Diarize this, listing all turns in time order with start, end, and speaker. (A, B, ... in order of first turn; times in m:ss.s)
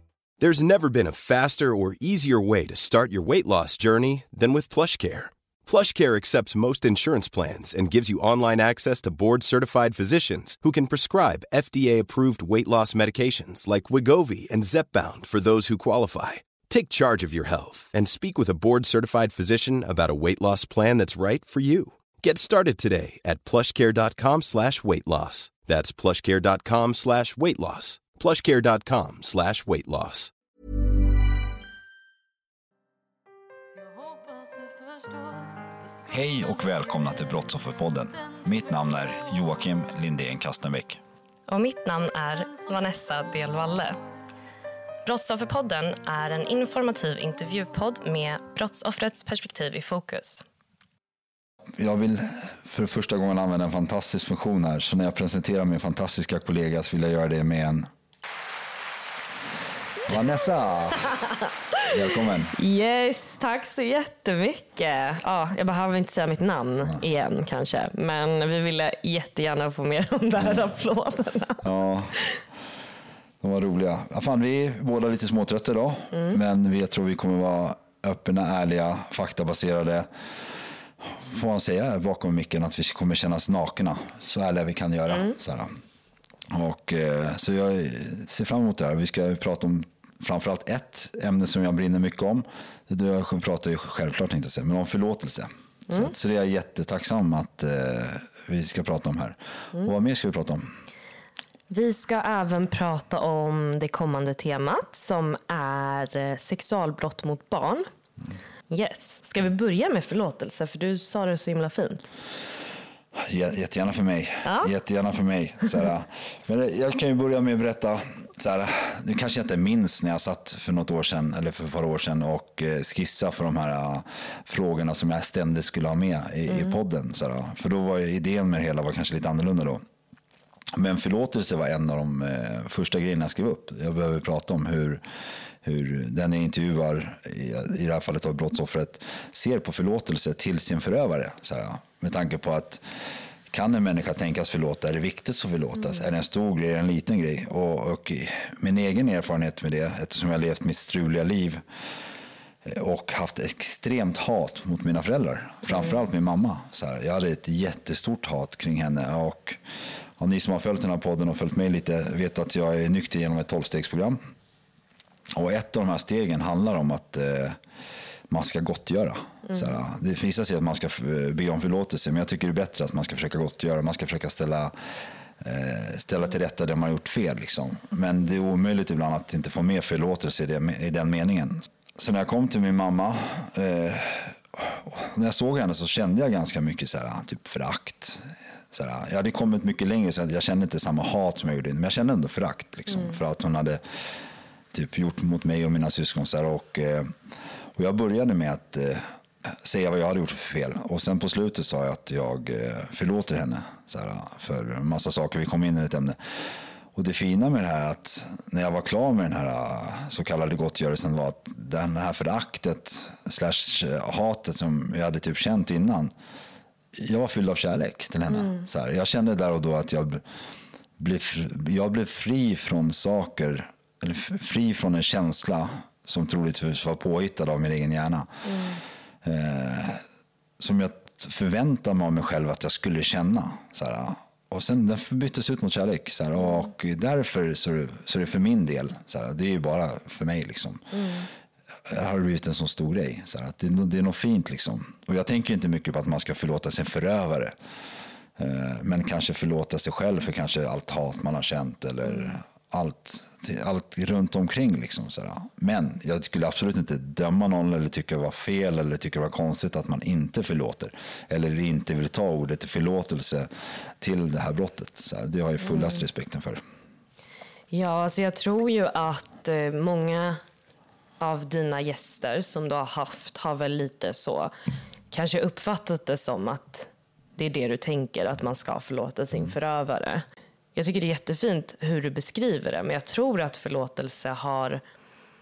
0:00.4-0:30.3 A
0:33.8-0:35.7 B
0:36.1-0:41.0 C
0:41.5-0:44.0 B
0:45.0-0:50.4 B
0:51.8-0:57.9 C
1:00.0-1:01.1 C
1:01.1-1:12.4 B
1:01.8-1:02.5 C
1:11.6-1:12.2 C
1:13.4-1:25.8 C
1:16.1-1:16.4 B
1:25.1-1:25.4 B
1:26.5-1:40.7 C
1:41.7-1:47.8 B
1:48.7-1:52.1 B
1:53.2-2:09.8 C
1:54.4-1:54.7 B
2:10.7-2:15.0 C
2:15.6-2:31.6 C
2:32.6-2:39.6 C
2:40.2-2:44.2 C
2:45.3-2:47.6 C
2:48.3-2:54.8 C
2:49.5-2:49.7 B
2:55.4-3:14.2 C
3:12.9-3:13.2 B
3:14.7-3:17.2 C
3:17.8-3:36.1 C
3:36.9-3:40.4 C
3:38.3-3:38.6 B
3:41.0-3:48.3 C
3:48.4-3:48.8 B
3:49.2-3:50.0 C
3:50.6-4:01.0 C
4:00.9-4:01.3 B
4:01.8-4:07.5 C
4:08.4-4:23.5 C
4:24.0-4:26.6 C
4:25.6-4:26.0 B
4:27.7-4:30.4 B
4:31.2-4:34.5 B
4:35.1-4:40.2 B
4:40.8-4:44.8 B